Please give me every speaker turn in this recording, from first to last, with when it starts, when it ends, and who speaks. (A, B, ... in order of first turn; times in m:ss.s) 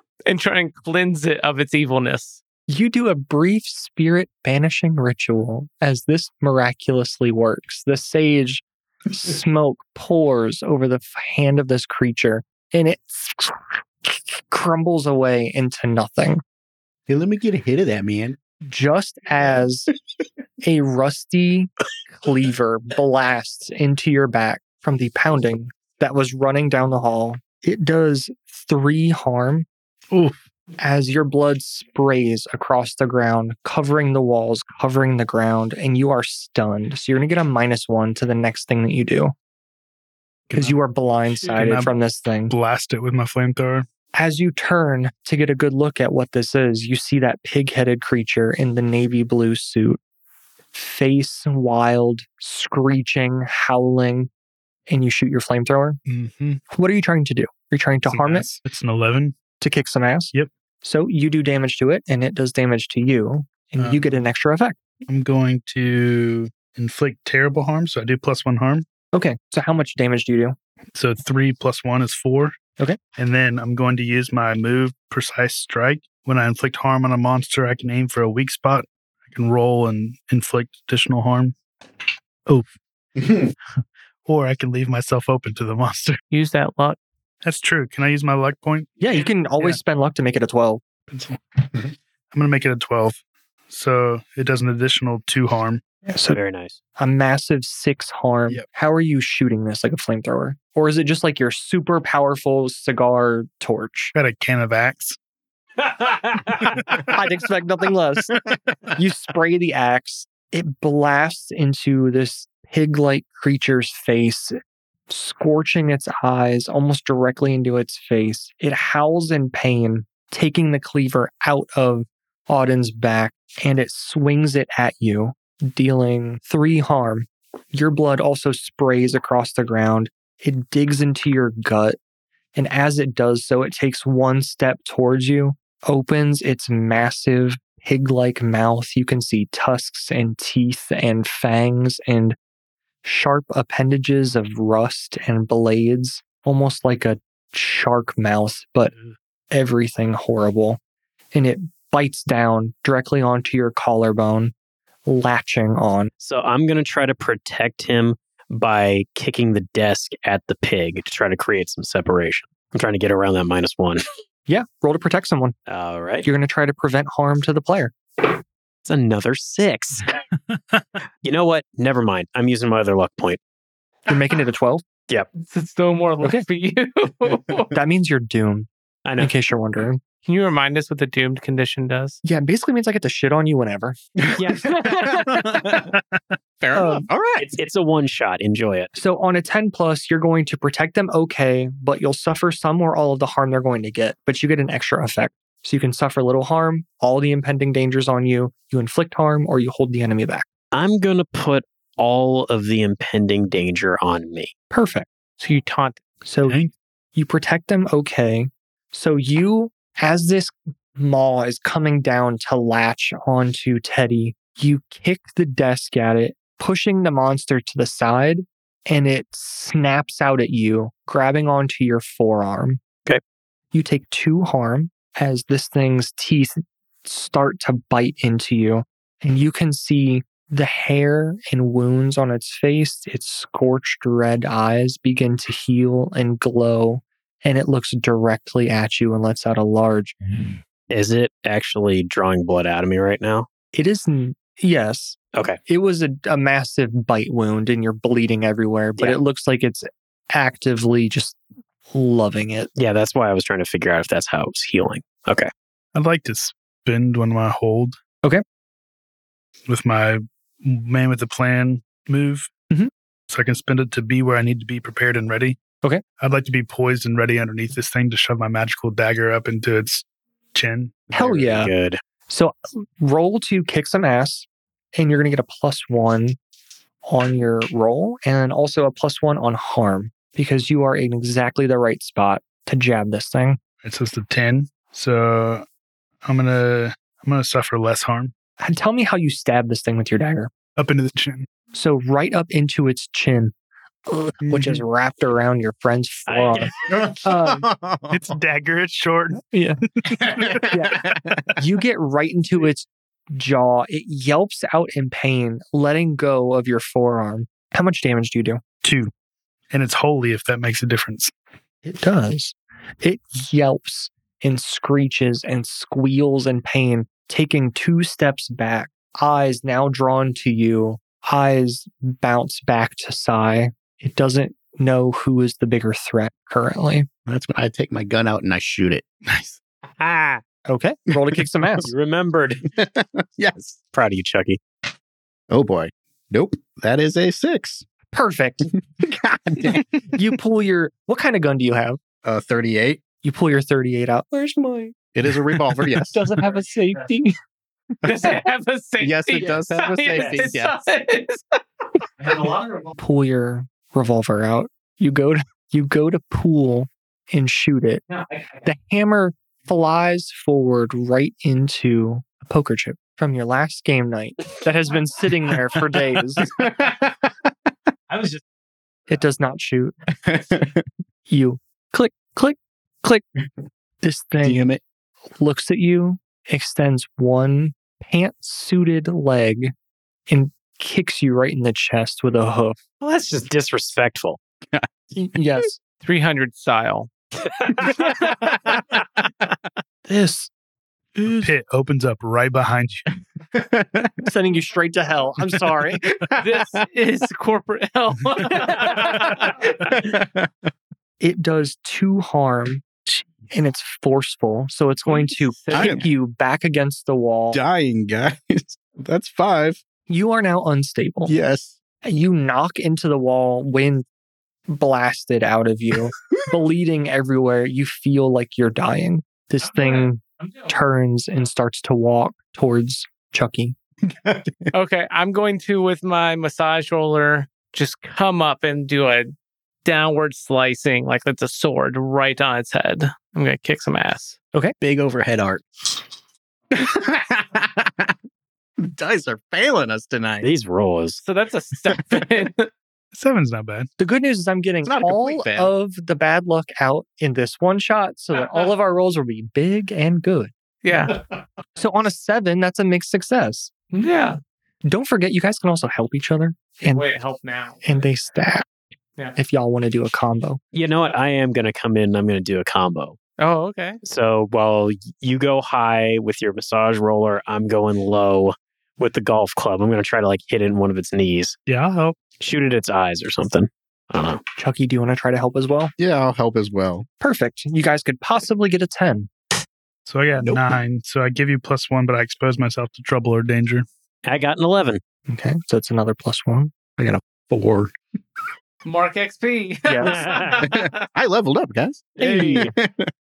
0:00.2-0:02.4 A
0:02.7-0:16.4 B
0:17.1-0:18.4 C
0:18.6-0:19.9 B
0:20.6-0:29.7 B
0:30.1-0:30.4 D
0:30.8-0:39.3 B
0:40.5-0:40.7 D
0:40.5-0:42.5 B
0:41.4-0:41.9 D
0:42.5-0:43.9 D
0:44.1-0:50.0 B
0:50.7-0:54.3 B
0:54.9-0:56.0 B
0:56.0-0:56.6 D
0:56.7-0:58.5 B
0:58.1-0:59.4 D
0:59.6-1:04.8 B
1:03.8-1:04.1 D
1:05.1-1:08.8 D
1:09.1-1:10.5 B
1:10.9-1:12.6 D
1:13.2-1:21.6 D
1:23.2-1:23.5 C
1:24.2-1:26.2 D
1:26.3-1:27.0 A
1:27.4-1:29.0 D
1:29.0-1:30.8 B
1:31.1-1:35.8 D
1:36.0-1:36.4 B
1:36.3-1:36.8 E
1:37.0-1:44.1 B
1:44.1-1:45.2 D
1:46.8-1:47.1 D
1:47.0-1:48.4 B
1:48.9-1:54.6 B
1:55.1-2:12.0 B
2:12.6-2:22.4 B
2:23.0-2:28.9 B
2:29.5-2:30.8 B
2:31.3-2:34.5 B
2:35.0-2:36.1 B
2:36.2-2:44.0 E
2:44.5-2:45.5 B
2:45.7-2:46.2 E
2:46.2-2:47.9 B
2:48.8-2:50.1 E
2:50.5-2:50.8 D
2:51.2-2:53.4 E
2:54.1-2:54.8 B
2:55.4-2:57.8 A
2:57.7-3:00.0 B
2:59.0-2:59.3 E
3:00.2-3:02.2 A
3:02.2-3:04.0 B
3:04.3-3:05.8 C
3:04.4-3:05.6 E
3:04.5-3:05.6 A
3:06.6-3:07.5 C
3:06.7-3:07.1 B
3:07.4-3:08.9 E
3:08.9-3:20.4 B
3:20.7-3:24.5 E
3:24.7-3:25.1 B
3:25.4-3:26.0 A
3:26.2-3:26.6 B
3:26.4-3:26.7 D
3:27.1-3:42.8 B
3:43.7-4:00.2 B
4:00.9-4:03.5 E
4:03.7-4:11.4 B
4:05.4-4:05.6 E
4:11.9-4:12.7 B
4:12.8-4:15.5 E
4:15.9-4:18.0 D
4:19.7-4:22.5 D
4:23.3-4:25.6 D
4:26.2-4:31.1 D
4:31.1-4:31.7 B
4:31.1-4:32.0 E
4:32.3-4:36.4 B
4:37.0-4:43.6 B
4:43.8-4:45.6 D
4:46.2-4:48.3 D
4:48.6-4:50.5 B
4:50.8-4:51.5 D
4:51.7-4:53.5 B
4:54.1-4:57.6 B
4:54.4-4:54.8 D
4:56.3-4:56.7 E
4:56.9-4:58.3 C
4:58.1-4:59.5 D
4:59.4-4:59.8 B
5:00.0-5:00.6 D
5:00.2-5:01.4 C
5:00.4-5:01.0 B
5:01.6-5:08.6 B
5:08.8-5:09.1 D
5:09.7-5:11.3 D
5:11.8-5:27.1 B
5:27.3-5:29.0 C
5:29.3-5:29.6 D
5:30.0-5:30.4 E
5:30.7-5:31.9 B
5:31.8-5:32.6 E
5:32.7-5:33.8 C
5:33.9-5:34.6 E
5:35.5-5:37.8 C
5:38.1-5:38.7 B
5:39.0-5:40.0 C
5:40.1-5:42.0 B
5:42.2-5:43.0 C
5:43.2-5:44.9 B
5:45.1-5:46.3 C
5:46.1-5:47.4 B
5:48.0-5:51.6 A
5:49.0-5:50.7 C
5:52.2-5:58.0 B
5:58.6-6:06.5 B
6:06.4-6:07.5 C
6:08.1-6:08.4 E
6:09.1-6:09.9 B
6:10.2-6:10.8 C
6:11.3-6:13.2 B
6:14.0-6:14.6 B
6:14.4-6:14.8 C
6:15.4-6:19.7 B
6:20.3-6:22.8 B
6:23.0-6:24.4 E
6:25.1-6:25.8 B
6:26.0-6:27.1 A
6:27.4-6:28.1 E
6:27.9-6:28.5 C
6:30.1-6:30.5 B
6:31.2-6:31.5 B
6:31.4-6:33.1 D
6:33.5-6:34.1 C
6:34.2-6:36.0 B
6:36.0-6:36.8 C
6:36.4-6:39.7 A
6:38.5-6:40.5 C
6:41.2-6:42.9 B
6:43.5-6:47.6 B
6:45.2-6:46.1 A
6:45.7-6:46.1 C
6:47.5-6:49.8 C
6:50.1-6:51.3 B
6:51.2-6:51.8 C
6:52.0-6:54.0 B
6:54.7-7:03.7 B
7:04.0-7:04.7 C
7:04.7-7:09.3 A
7:09.8-7:14.4 A
7:14.8-7:16.0 C
7:16.7-7:18.1 C
7:18.8-7:20.5 C
7:20.4-7:21.2 E
7:21.2-7:22.7 A
7:23.1-7:23.9 D
7:24.0-7:30.5 B
7:24.8-7:25.7 C
7:30.8-7:31.2 A
7:31.8-7:33.7 B
7:33.9-7:34.4 A
7:34.9-7:37.0 B
7:36.9-7:37.8 A
7:37.8-7:38.7 B
7:39.4-7:40.6 B
7:40.7-7:43.2 E
7:43.4-7:44.0 A
7:44.0-7:51.6 E
7:51.7-7:52.2 D
7:52.4-7:54.4 E
7:54.6-7:55.9 B
7:56.0-7:57.0 C
7:57.2-7:59.3 B
8:00.0-8:03.9 D
8:04.2-8:05.0 E
8:05.3-8:07.5 B
8:07.5-8:07.8 C
8:08.8-8:11.0 A
8:09.8-8:10.2 B
8:10.0-8:10.7 E
8:10.6-8:13.1 C
8:12.2-8:12.6 B
8:12.2-8:12.7 E